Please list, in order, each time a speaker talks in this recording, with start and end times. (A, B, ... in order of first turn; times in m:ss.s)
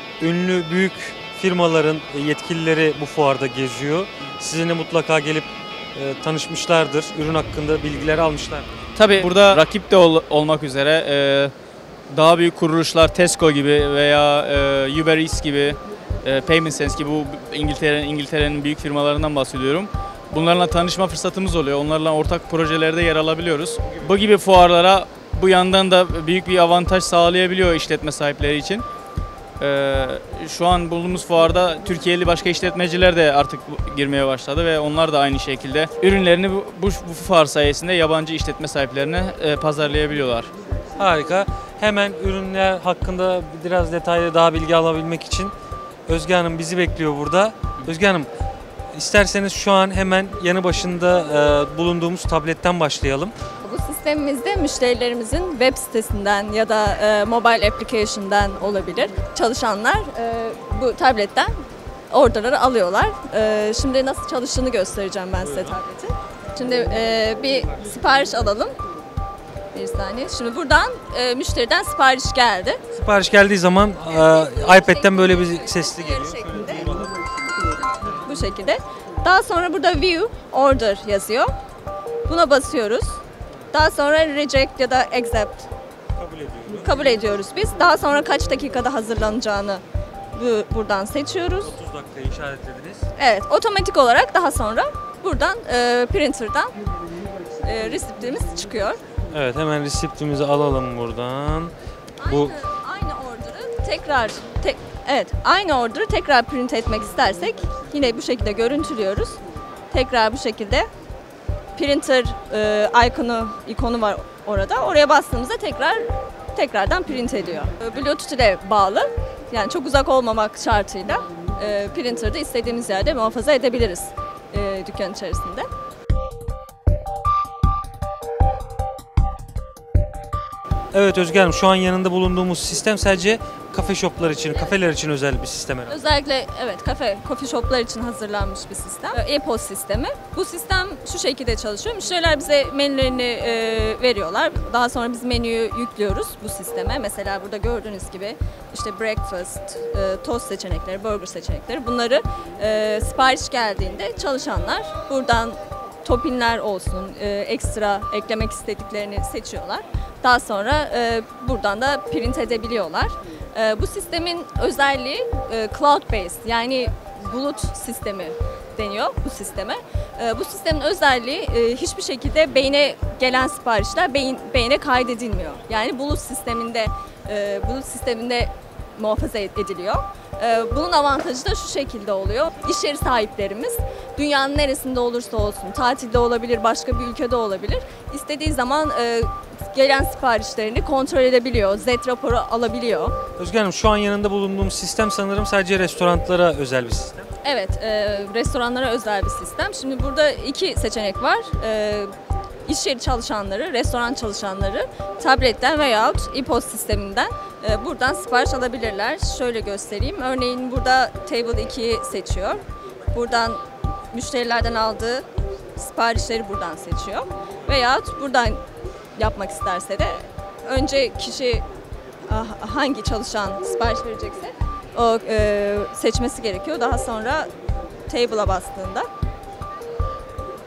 0:00.2-0:08.7 A
0:08.9-0:11.5 B
0:12.1-0:28.8 B
0:29.6-0:40.5 B
0:41.0-0:45.5 A
0:46.1-0:48.3 A
0:48.9-0:53.3 A
0:53.6-1:01.5 C
1:02.1-1:08.7 C
1:09.7-1:12.8 C
1:12.9-1:17.2 A
1:14.1-1:16.9 C
1:18.1-1:21.5 C
1:22.2-1:23.2 C
1:23.7-1:25.7 C
1:26.2-1:26.9 A
1:26.8-1:29.8 C
1:30.3-1:31.7 C
1:31.6-1:33.1 A
1:33.2-1:36.7 C
1:37.6-1:39.0 C
1:39.3-1:42.5 A
1:42.2-1:49.4 C
1:49.9-1:50.9 C
1:51.7-2:05.7 C
2:10.9-2:16.0 A
2:15.9-3:13.1 C
3:13.4-3:17.2 A
3:17.4-3:22.1 C
3:22.6-3:38.6 C
3:39.2-3:41.6 C
3:42.3-3:47.5 C
3:48.1-3:49.1 C